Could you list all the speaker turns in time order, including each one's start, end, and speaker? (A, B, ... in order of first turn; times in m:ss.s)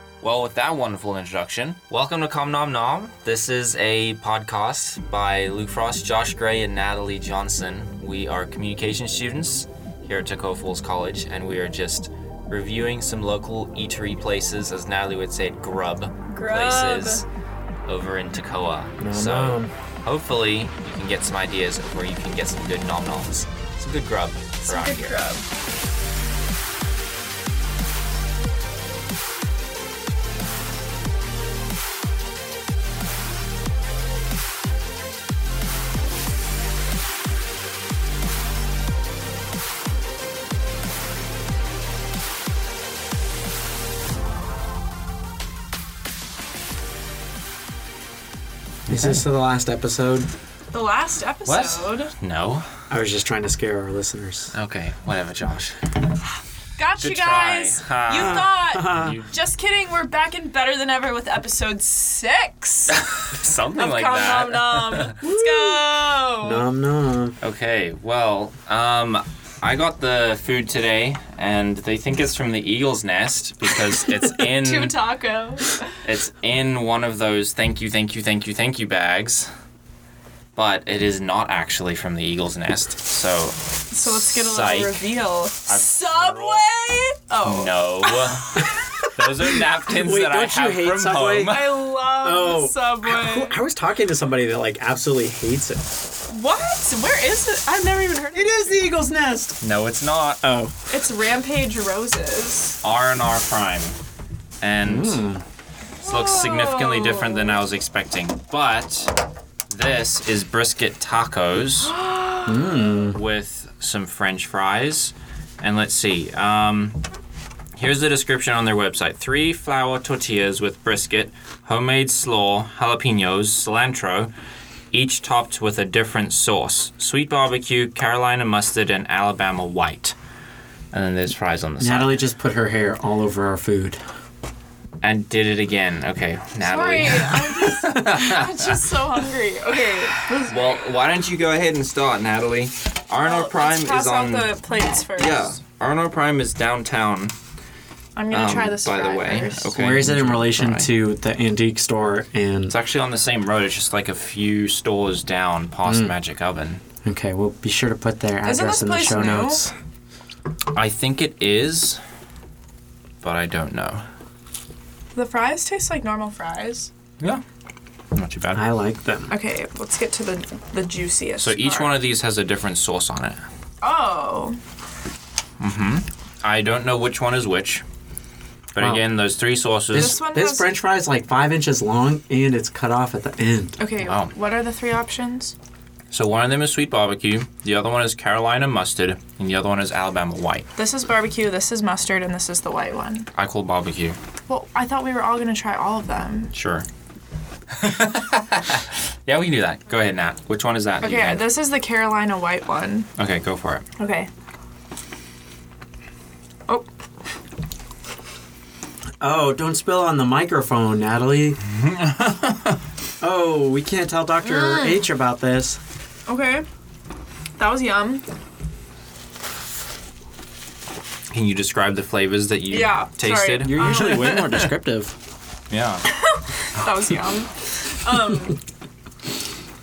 0:00.2-0:17.3 A
0:16.3-0:17.2 B
0:17.9-0:25.2 A
0:19.0-0:19.7 C
0:24.6-0:25.5 B
0:48.9-0:50.3 C
0:48.9-0:49.2 A
0:50.7-0:52.1 B
0:51.5-0:52.7 A
0:52.9-0:54.5 C
0:54.5-0:55.8 A
0:56.8-1:03.0 B
0:57.0-0:59.3 A
0:58.7-0:59.2 C
1:03.0-1:05.2 A
1:03.8-1:06.6 B
1:05.2-1:07.4 C
1:07.4-1:15.1 A
1:14.5-1:16.0 B
1:16.0-1:19.5 A
1:20.6-1:25.0 A
1:23.9-1:28.8 B
1:25.7-1:26.7 A
1:27.4-1:31.8 A
1:28.8-1:29.3 C
1:29.9-1:35.8 C
1:31.5-1:33.6 B
1:36.3-1:38.8 B
1:38.3-1:39.6 C
1:39.6-1:40.4 A
1:40.4-1:40.8 C
1:40.9-1:42.8 B
1:42.8-1:44.0 A
1:44.6-1:45.2 A
1:44.8-1:45.4 C
1:46.0-1:47.6 B
1:46.0-1:51.9 A
1:51.8-1:52.7 B
1:52.5-1:53.2 C
1:53.0-1:57.0 A
1:57.8-2:04.3 A
2:04.9-2:10.2 A
2:10.9-2:12.2 A
2:11.8-2:14.0 C
2:15.0-2:18.7 A
2:16.6-2:20.8 B
2:20.4-2:24.5 A
2:23.2-2:25.6 B
2:25.2-2:27.4 A
2:28.2-2:29.9 B
2:28.3-2:30.9 A
2:29.8-2:32.7 C
2:32.7-2:36.8 A
2:35.9-2:36.1 C
2:37.0-2:39.7 C
2:38.4-2:39.6 B
2:40.7-2:42.0 A
2:43.2-2:44.0 A
2:45.2-2:46.9 B
2:48.1-2:48.6 A
2:48.5-2:49.3 C
2:49.3-2:51.9 B
2:51.4-2:53.4 A
2:53.8-2:54.6 B
2:55.6-2:57.8 A
2:58.7-3:00.2 A
2:58.8-2:59.0 C
2:59.9-3:03.8 C
3:00.0-3:00.7 B
3:03.8-3:05.6 B
3:04.0-3:04.3 A
3:06.1-3:10.7 A
3:10.8-3:13.3 B
3:13.4-3:14.2 A
3:14.5-3:16.5 B
3:16.5-3:16.9 A
3:17.7-3:21.6 A
3:21.0-3:23.1 B
3:23.2-3:23.9 A
3:24.0-3:24.3 B
3:29.2-3:31.6 C
3:31.7-3:32.8 A
3:33.2-3:35.8 C
3:34.4-3:35.1 B
3:36.3-3:36.7 B
3:37.6-3:38.2 B
3:41.3-3:44.7 A
3:42.7-3:44.4 B
3:43.6-3:45.1 C
3:45.7-3:46.1 A
3:46.1-3:48.6 B